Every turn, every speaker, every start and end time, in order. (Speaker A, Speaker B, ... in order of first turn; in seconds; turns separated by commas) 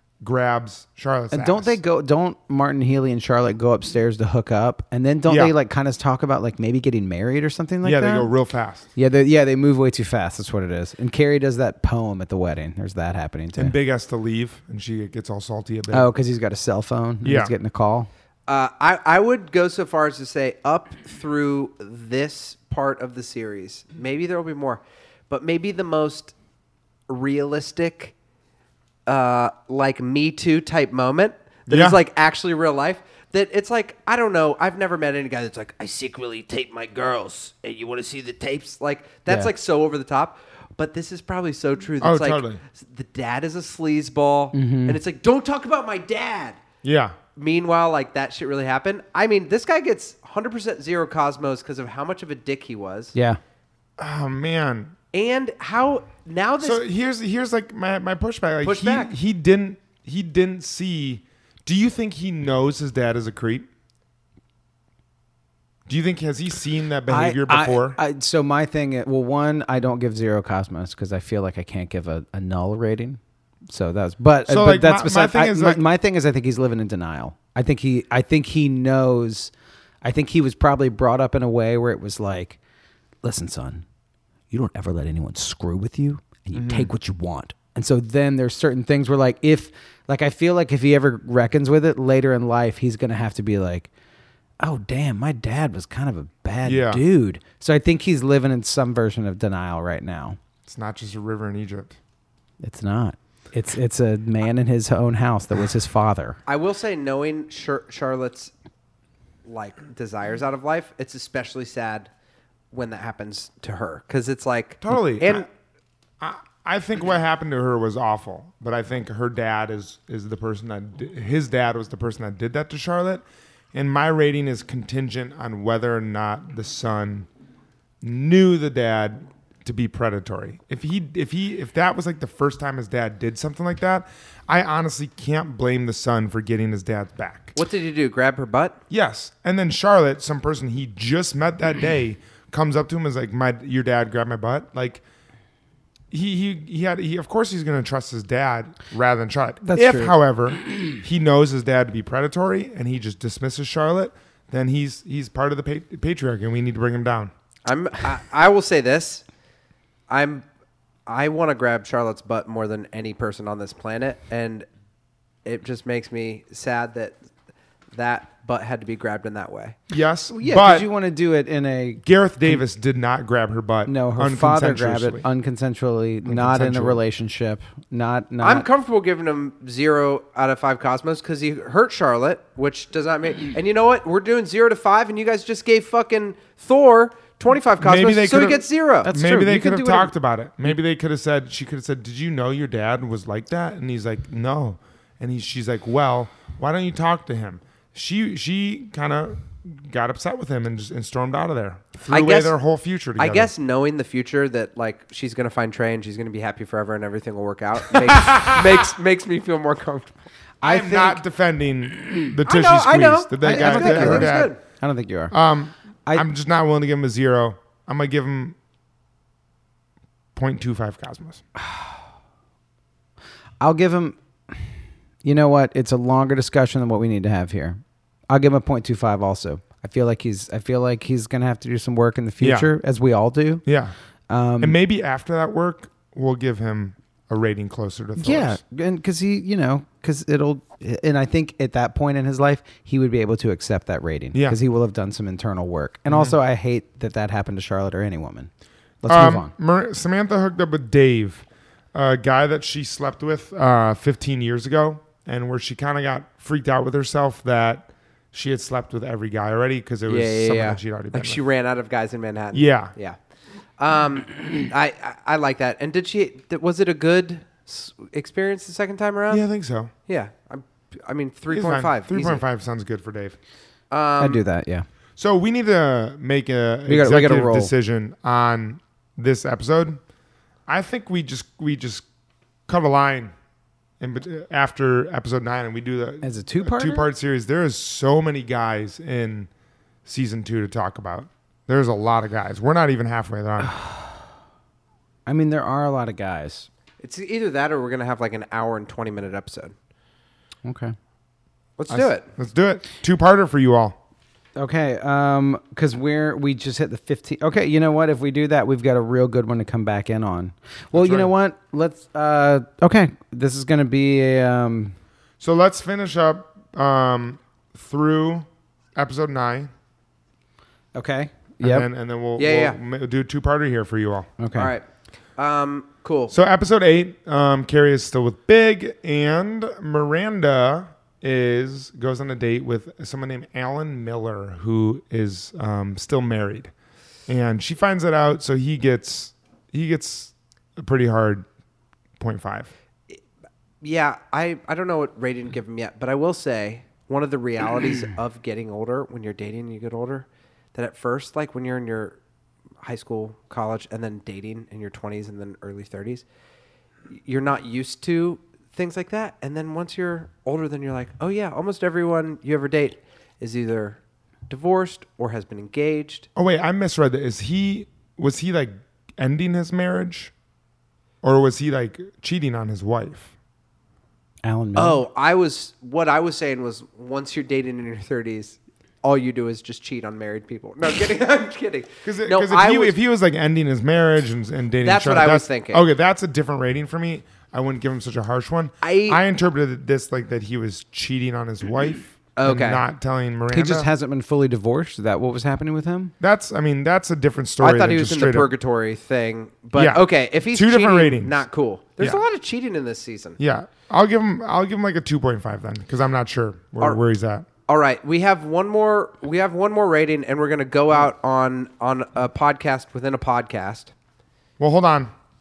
Speaker A: 0.2-1.8, Speaker B: 1.3-8.3, Speaker A: 5.3-5.5, Speaker A: 7.8-8.9, Speaker B: 8.9-13.8, Speaker A: 13.6-16.1, Speaker B: 15.9-18.1, Speaker A: 17.2-17.5, Speaker C: 18.5-26.3, Speaker C: 27.1-28.1, Speaker C: 29.1-46.6, Speaker A: 31.7-32.0, Speaker B: 39.3-39.5, Speaker A: 42.0-42.6, Speaker B: 44.5-45.0, Speaker A: 46.8-47.2, Speaker C: 47.4-53.1, Speaker B: 53.1-53.4, Speaker A: 54.0-55.0, Speaker C: 55.1-56.8, Speaker A: 56.6-63.7, Speaker C: 58.6-59.1, Speaker A: 65.9-68.0, Speaker B: 67.1-82.6, Speaker A: 74.5-75.8, Speaker B: 83.2-83.8, Speaker B: 84.5-93.9, Speaker A: 86.5-86.9, Speaker B: 94.6-100.4, Speaker A: 96.6-97.0, Speaker A: 100.7-102.0, Speaker B: 102.6-106.4, Speaker C: 106.5-108.5, Speaker C: 109.5-112.1, Speaker C: 112.7-115.5, Speaker A: 114.8-115.5, Speaker A: 116.2-127.3, Speaker A: 128.0-137.6, Speaker C: 137.6-138.8, Speaker A: 138.9-145.0, Speaker A: 146.1-157.3, Speaker B: 149.6-150.2, Speaker C: 157.7-159.2, Speaker C: 160.1-160.4, Speaker C: 161.1-164.7, Speaker C: 165.4-167.2, Speaker C: 167.9-169.8, Speaker A: 169.9-170.9, Speaker B: 170.4-172.6, Speaker A: 172.0-175.2, Speaker B: 173.9-178.7, Speaker A: 176.3-177.0, Speaker C: 178.4-189.1, Speaker A: 187.8-203.5, Speaker B: 189.0-190.1, Speaker C: 202.1-202.6, Speaker C: 203.2-210.1, Speaker A: 208.2-208.7, Speaker B: 210.6-211.2, Speaker A: 210.6-214.6, Speaker C: 212.5-214.6, Speaker B: 213.4-215.3, Speaker A: 215.3-218.6, Speaker A: 220.4-221.4, Speaker B: 223.6-233.6, Speaker A: 232.4-232.7, Speaker A: 233.7-233.9, Speaker B: 234.3-234.8, Speaker A: 234.6-238.6, Speaker B: 238.2-248.5, Speaker A: 244.3-244.6, Speaker A: 246.1-246.4, Speaker B: 249.0-249.5, Speaker A: 249.1-261.4, Speaker C: 260.1-263.2, Speaker A: 262.5-262.9, Speaker C: 263.8-269.4, Speaker A: 269.3-269.9, Speaker C: 270.1-272.4, Speaker A: 271.5-273.4, Speaker C: 273.9-274.4, Speaker B: 274.2-274.9, Speaker A: 275.2-280.0, Speaker B: 276.9-277.7, Speaker A: 280.7-282.1, Speaker A: 282.7-283.3, Speaker A: 284.0-289.5, Speaker B: 286.2-287.1, Speaker A: 290.1-293.8, Speaker B: 293.6-294.1, Speaker B: 295.3-296.7, Speaker C: 297.0-299.7, Speaker B: 300.6-300.9, Speaker C: 301.8-302.2, Speaker A: 301.9-304.0, Speaker B: 304.6-314.9, Speaker A: 310.9-311.3, Speaker A: 315.4-319.7, Speaker B: 320.9-321.9, Speaker A: 321.6-324.3, Speaker C: 322.4-322.8, Speaker B: 324.4-324.7, Speaker C: 324.6-324.9, Speaker C: 325.4-326.3, Speaker A: 326.3-336.7, Speaker A: 337.3-341.5, Speaker A: 342.2-342.7, Speaker C: 343.8-352.2, Speaker C: 352.8-356.2, Speaker C: 357.2-366.3, Speaker A: 366.4-370.3, Speaker A: 371.2-373.3, Speaker B: 374.4-375.0, Speaker C: 374.8-382.9, Speaker A: 382.0-393.9, Speaker C: 384.8-385.8, Speaker C: 388.8-389.2, Speaker C: 392.4-392.8, Speaker B: 393.5-396.1, Speaker A: 396.2-398.5, Speaker C: 397.6-403.4, Speaker A: 399.7-401.4, Speaker A: 403.4-407.5, Speaker C: 407.7-413.9, Speaker A: 414.6-415.1